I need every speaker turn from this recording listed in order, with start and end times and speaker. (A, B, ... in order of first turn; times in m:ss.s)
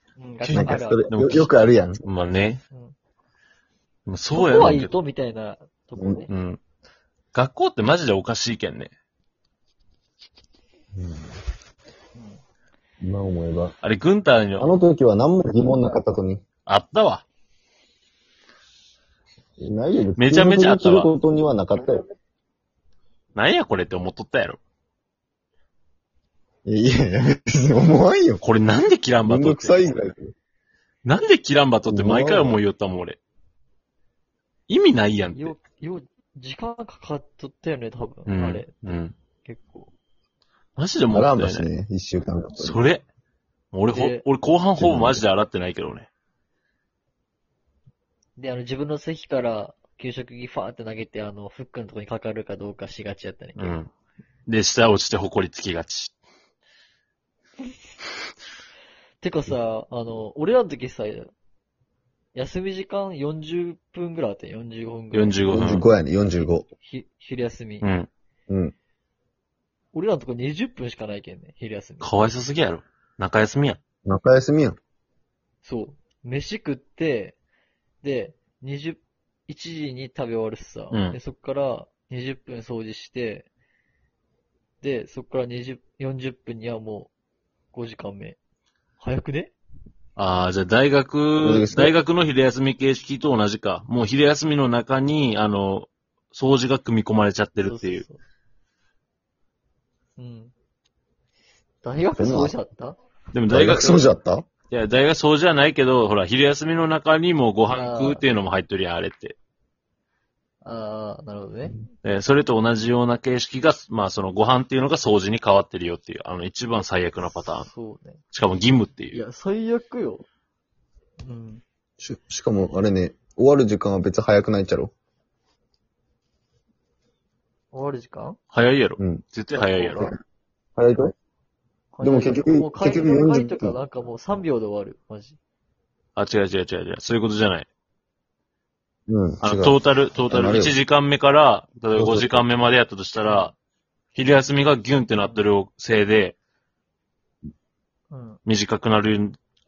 0:00.2-0:01.1 A
0:00.4-0:01.5 B
0:00.5-0:02.0 C
0:02.0-0:02.6 B
0:04.1-0:04.9 B
0:04.3-0:06.3 A
0:06.0-0:06.2 C
0:06.3-0:06.6 B
0:07.3-0:08.9 B
0:10.9-0:11.4 C
0:12.1-0:12.4 A
0:13.0-0:13.7 C
0:13.8-0:14.7 B
0:14.6-0:16.4 C
0:16.6-0:17.2 B
0:19.6-0:22.0 C
0:20.2-0:21.1 B
0:23.3-0:24.6 B
0:26.6-0:28.4 C
0:28.4-0:29.8 B
0:29.2-0:30.3 C
0:31.0-0:33.2 B
0:31.9-0:32.6 C
0:34.7-0:35.5 B
0:35.3-0:38.8 A
0:38.2-0:39.1 B
0:39.4-0:39.9 A
0:40.8-0:41.7 B
0:41.1-0:42.8 C
0:42.6-0:43.0 B
0:43.7-0:46.1 B
0:43.9-0:44.2 A
0:44.8-0:45.2 C
0:48.4-0:53.8 A
0:53.6-0:53.9 B
0:54.5-0:56.1 B
0:59.2-1:01.3 A
1:02.3-1:05.6 A
1:05.1-1:05.9 B
1:05.5-1:06.6 C
1:06.8-1:07.9 A
1:07.8-1:08.1 B
1:08.5-1:08.7 C
1:09.9-1:12.2 A
1:12.0-1:13.8 B
1:14.0-1:14.8 C
1:15.6-1:17.4 A
1:18.0-1:23.5 A
1:20.9-1:21.2 B
1:24.8-1:27.1 A
1:27.7-1:28.4 A
1:29.0-1:29.5 A
1:30.2-1:38.0 B
1:31.4-1:31.9 C
1:37.6-1:38.2 A
1:40.2-1:40.5 A
1:41.8-1:43.0 A
1:42.2-1:42.5 C
1:43.3-1:44.1 B
1:43.5-1:44.4 C
1:44.7-1:49.4 B
1:47.7-1:48.2 A
1:50.6-1:51.8 A
1:52.0-1:57.7 B
1:57.6-1:58.2 A
1:58.3-1:59.2 B
1:59.1-2:00.2 A
2:01.2-2:01.6 A
2:02.0-2:04.9 C
2:07.7-2:08.4 A
2:08.5-2:10.1 B
2:09.0-2:09.2 C
2:09.5-2:10.1 A
2:10.8-2:11.1 C
2:11.9-2:15.4 A
2:12.0-2:13.8 C
2:16.2-2:17.7 B
2:19.1-2:20.8 C
2:19.4-2:23.5 B
2:21.9-2:22.4 C
2:24.1-2:26.4 B
2:25.1-2:25.4 A
2:28.1-2:28.4 A
2:28.4-2:29.4 B